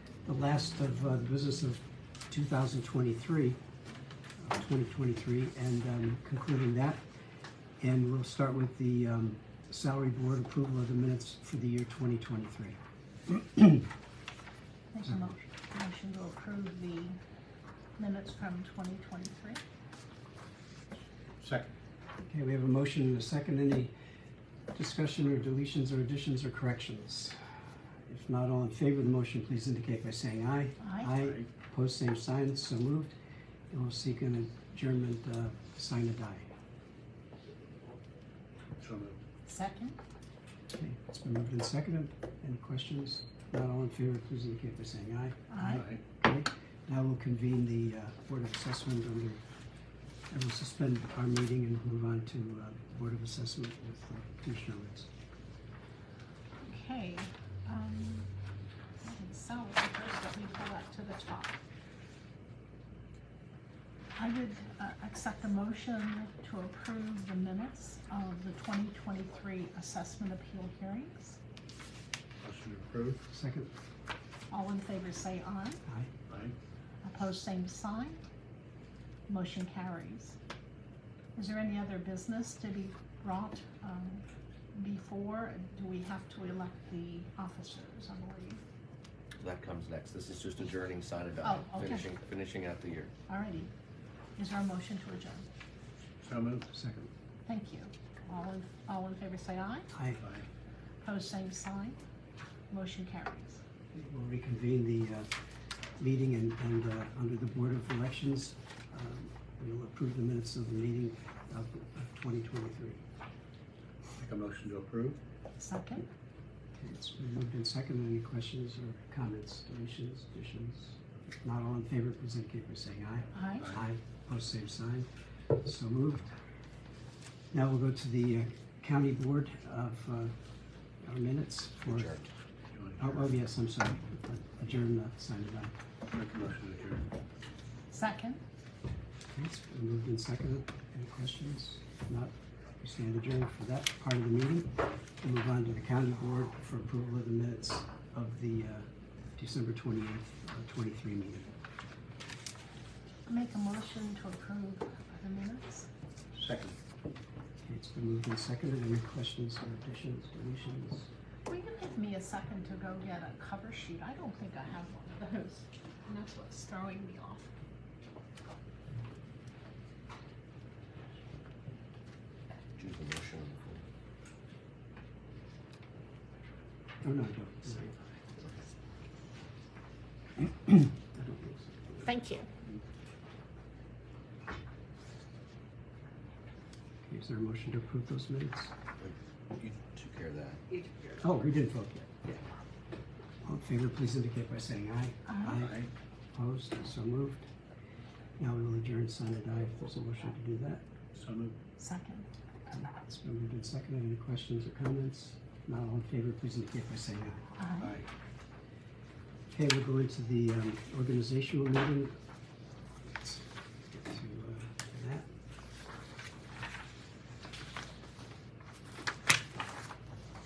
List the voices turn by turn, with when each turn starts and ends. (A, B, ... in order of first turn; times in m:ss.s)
0:00.2-0:03.6 A
0:04.4-0:07.0 A
0:07.8-0:13.9 A
0:14.9-0:17.2 B
0:15.0-0:15.4 A
0:18.0-0:19.6 B
0:21.4-0:21.7 C
0:22.2-0:23.9 A
0:24.7-0:27.4 A
0:28.1-0:33.2 A
0:30.8-0:31.1 B
0:31.2-0:31.5 C
0:33.7-0:36.5 A
0:38.8-0:39.2 C
0:39.5-0:40.0 B
0:40.7-0:49.4 A
0:45.5-0:45.9 B
0:45.7-0:46.0 C
0:50.3-0:55.1 A
0:56.6-0:58.3 B
0:59.0-1:01.6 B
1:04.2-1:11.4 B
1:12.4-1:13.3 C
1:13.3-1:13.8 A
1:14.5-1:15.8 B
1:15.9-1:16.1 A
1:16.3-1:16.6 C
1:17.0-1:18.2 B
1:19.3-1:20.4 B
1:21.4-1:28.6 B
1:29.4-1:33.1 D
1:31.4-1:32.1 B
1:33.3-1:33.7 B
1:34.4-1:35.5 B
1:36.2-1:36.7 C
1:36.7-1:37.1 A
1:37.5-1:39.9 B
1:39.9-1:40.2 A
1:40.2-1:40.5 C
1:41.0-1:42.0 B
1:42.7-1:43.6 B
1:43.9-1:45.3 A
1:46.0-1:53.0 A
1:54.2-1:55.2 C
1:55.6-1:56.1 B
1:56.8-2:06.3 A
2:03.3-2:03.7 B
2:07.5-2:10.4 A
2:11.0-2:12.2 A
2:11.9-2:12.3 D
2:12.7-2:13.3 C
2:13.0-2:15.7 A
2:16.1-2:17.1 C
2:17.9-2:18.4 B
2:19.3-2:31.6 A
2:33.3-2:35.9 B
2:36.3-2:36.8 C
2:37.6-2:41.1 A
2:41.5-2:47.5 B
2:52.8-2:53.8 D
2:57.0-2:57.9 A
2:58.3-2:58.6 D
3:00.4-3:02.2 A
3:02.0-3:02.5 B
3:07.0-3:08.7 A
3:09.0-3:10.7 D
3:11.2-3:12.3 A
3:13.4-3:17.5 A
3:15.3-3:15.6 B
3:15.6-3:15.9 C
3:18.4-3:20.9 A
3:21.1-3:21.6 C
3:21.8-3:22.3 B
3:22.7-3:27.4 A
3:27.6-3:28.0 B
3:27.8-3:28.1 C
3:29.5-3:32.2 A
3:33.1-3:35.3 A